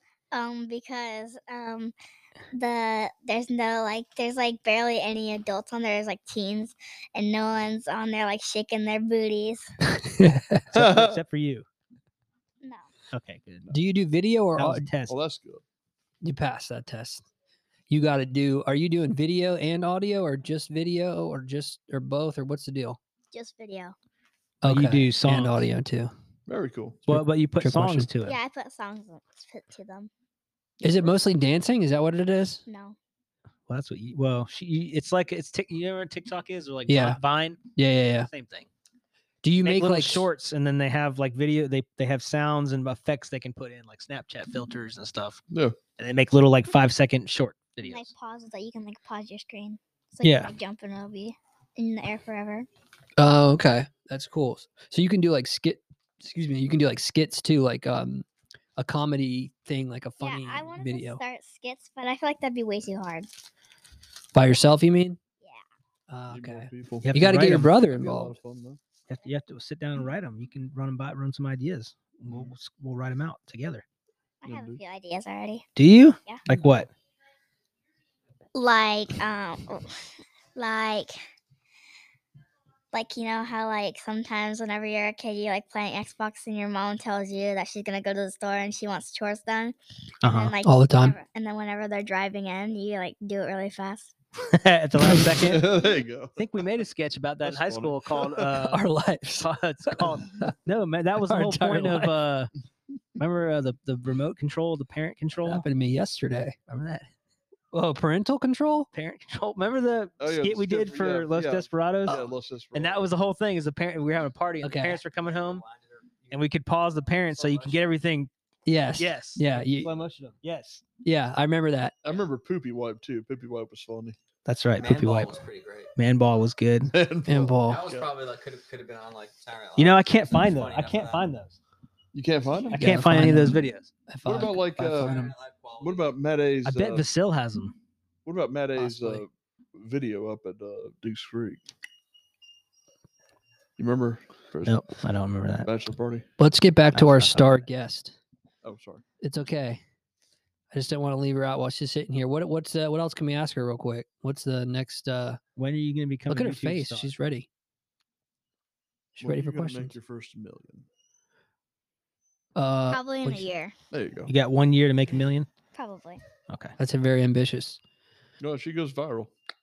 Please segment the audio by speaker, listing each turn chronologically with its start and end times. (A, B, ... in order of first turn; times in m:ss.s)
0:00.3-0:01.9 A
0:02.5-0:09.7 A
0:09.9-0:10.6 B
0:10.6-0:11.7 C
0:10.7-0:11.2 D
0:12.6-0:12.9 A
0:13.1-0:13.8 C
0:13.7-0:14.8 B
0:14.6-0:15.2 C
0:15.1-0:15.6 D
0:16.2-0:17.2 B
0:17.9-0:23.0 B
0:23.3-0:23.9 A
0:24.6-0:26.1 B
0:24.6-0:25.6 C
0:26.5-0:27.1 D
0:27.1-0:28.1 B
0:27.1-0:28.4 C
0:28.2-0:30.1 A
0:30.8-0:32.6 B
0:32.7-0:33.0 A
0:33.7-0:37.6 C
0:36.9-0:37.2 B
0:37.8-0:38.3 B
0:38.3-0:38.7 C
0:39.4-0:40.3 B
0:39.6-0:45.4 C
0:45.5-0:45.8 D
0:46.0-0:48.1 C
0:47.8-0:52.7 A
0:50.2-0:50.5 C
0:53.2-1:01.2 B
1:00.2-1:03.3 A
1:04.3-1:05.2 B
1:06.1-1:08.3 B
1:06.3-1:08.8 D
1:07.0-1:07.7 C
1:09.1-1:13.8 C
1:12.3-1:12.5 D
1:14.4-1:15.7 A
1:14.4-1:14.8 D
1:15.8-1:16.9 C
1:18.5-1:20.0 A
1:20.6-1:21.2 A
1:22.9-1:34.1 A
1:30.2-1:30.6 C
1:30.6-1:31.2 B
1:34.4-1:35.7 C
1:35.1-1:36.5 D
1:36.4-1:38.8 C
1:37.4-1:38.5 D
1:38.6-1:40.5 B
1:39.4-1:42.5 C
1:41.2-1:42.2 B
1:43.2-1:45.6 C
1:45.4-1:46.6 B
1:46.7-1:47.1 C
1:47.7-1:48.9 B
1:48.9-1:55.6 C
1:50.2-1:53.1 D
1:54.6-1:55.0 B
1:55.2-1:56.4 E
1:56.3-1:58.3 C
1:57.3-1:57.9 E
1:58.6-1:59.9 B
1:59.0-2:00.8 C
2:01.0-2:02.0 B
2:02.0-2:04.2 D
2:04.4-2:05.4 C
2:04.8-2:05.9 E
2:05.9-2:06.9 C
2:06.9-2:08.1 D
2:07.2-2:07.8 B
2:07.7-2:11.3 E
2:09.8-2:11.6 C
2:12.1-2:13.0 D
2:12.7-2:13.9 C
2:12.8-2:15.3 B
2:14.2-2:15.2 D
2:15.1-2:16.0 E
2:15.8-2:17.1 D
2:16.6-2:17.7 C
2:18.2-2:21.6 D
2:18.7-2:19.2 B
2:23.8-2:24.8 D
2:24.6-2:25.7 C
2:25.6-2:26.3 D
2:26.4-2:28.2 B
2:26.9-2:27.6 C
2:28.6-2:29.0 D
2:29.2-2:29.8 B
2:30.7-2:35.4 B
2:35.6-2:37.1 C
2:36.3-2:37.5 B
2:39.2-2:40.0 B
2:39.2-2:40.8 D
2:42.6-2:43.5 B
2:42.9-2:43.7 A
2:43.9-2:44.3 D
2:44.3-2:45.5 C
2:45.7-2:46.2 A
2:46.5-2:46.7 C
2:46.8-2:47.8 B
2:48.4-2:49.3 D